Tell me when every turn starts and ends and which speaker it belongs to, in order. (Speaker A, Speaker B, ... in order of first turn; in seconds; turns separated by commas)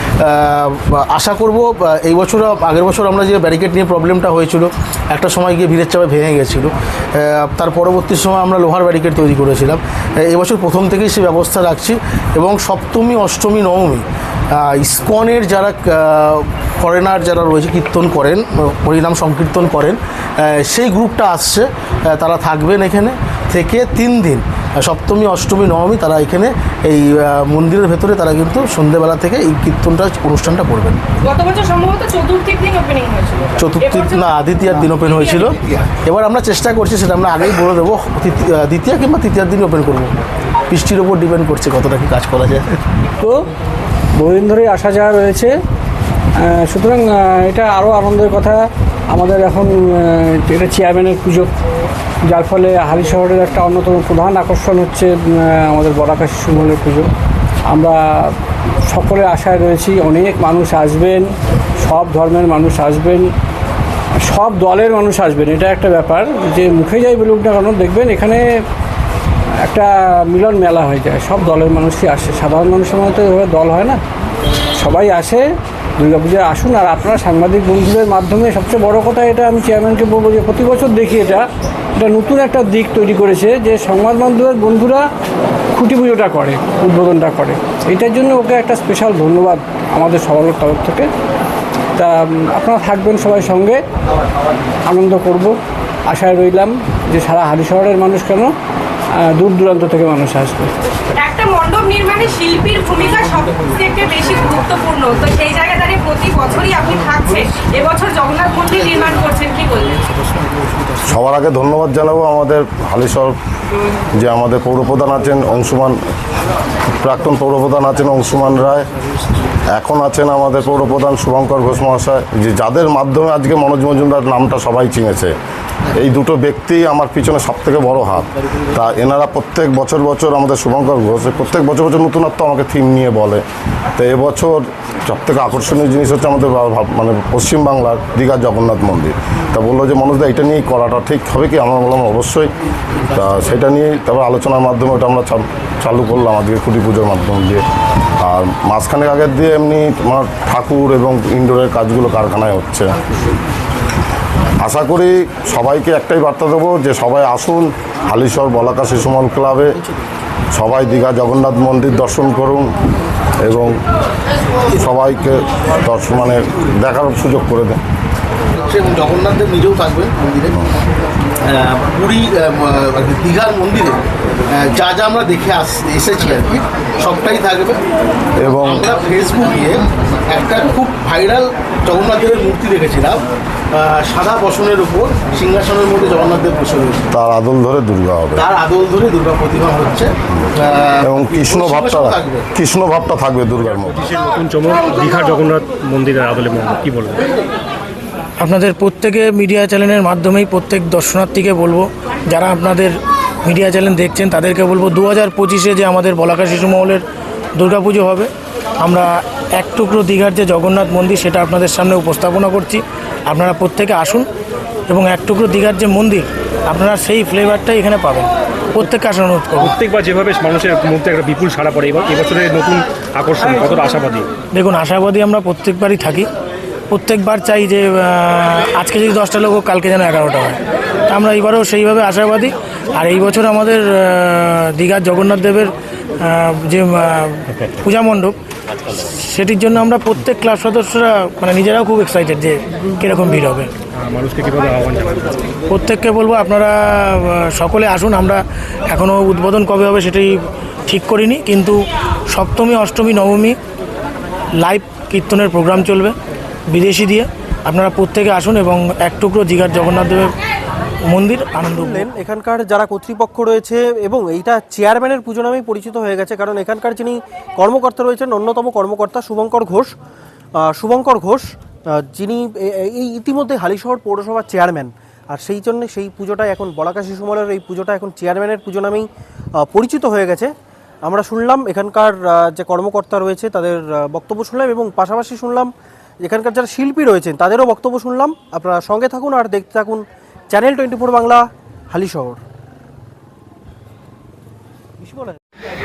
Speaker A: 0.2-31.0, Speaker B: 31.2-35.8, Speaker A: 33.6-40.1, Speaker A: 40.7-42.8, Speaker C: 44.1-45.5, Speaker C: 46.4-51.5, Speaker C: 52.2-57.1, Speaker C: 57.7-63.3, Speaker C: 64.2-68.4, Speaker C: 69.6-74.0, Speaker C: 74.7-85.1, Speaker C: 85.7-91.1, Speaker C: 91.9-93.8, Speaker C: 94.8-95.5, Speaker C: 96.1-98.5, Speaker C: 99.2-100.7, Speaker B: 101.2-110.0, Speaker D: 111.0-113.3, Speaker D: 114.2-116.0, Speaker D: 116.9-118.9, Speaker D: 119.7-125.3, Speaker D: 125.9-133.4, Speaker D: 133.9-142.5, Speaker D: 143.1-147.6, Speaker D: 148.2-152.9, Speaker D: 154.6-159.7, Speaker D: 160.5-162.7, Speaker D: 163.4-163.7, Speaker D: 164.8-167.8, Speaker A: 168.6-170.6, Speaker A: 171.4-177.8, Speaker D: 178.4-178.8, Speaker A: 178.6-183.2, Speaker A: 183.7-187.1, Speaker D: 187.1-188.4, Speaker A: 188.3-192.4, Speaker D: 191.0-193.9, Speaker E: 194.0-197.3, Speaker F: 198.4-207.0, Speaker F: 207.6-208.3, Speaker F: 208.8-214.2, Speaker F: 214.9-219.7, Speaker E: 219.6-224.3, Speaker F: 224.5-226.3, Speaker F: 226.9-238.3, Speaker F: 238.9-243.7, Speaker E: 244.0-245.4, Speaker F: 245.7-250.3, Speaker F: 250.9-251.8, Speaker F: 252.3-253.6, Speaker F: 254.6-256.1, Speaker F: 256.7-260.3, Speaker F: 261.1-262.0, Speaker G: 261.6-269.9, Speaker G: 270.5-279.1, Speaker G: 279.6-280.5, Speaker G: 281.0-285.7, Speaker G: 286.2-292.4, Speaker G: 295.0-295.4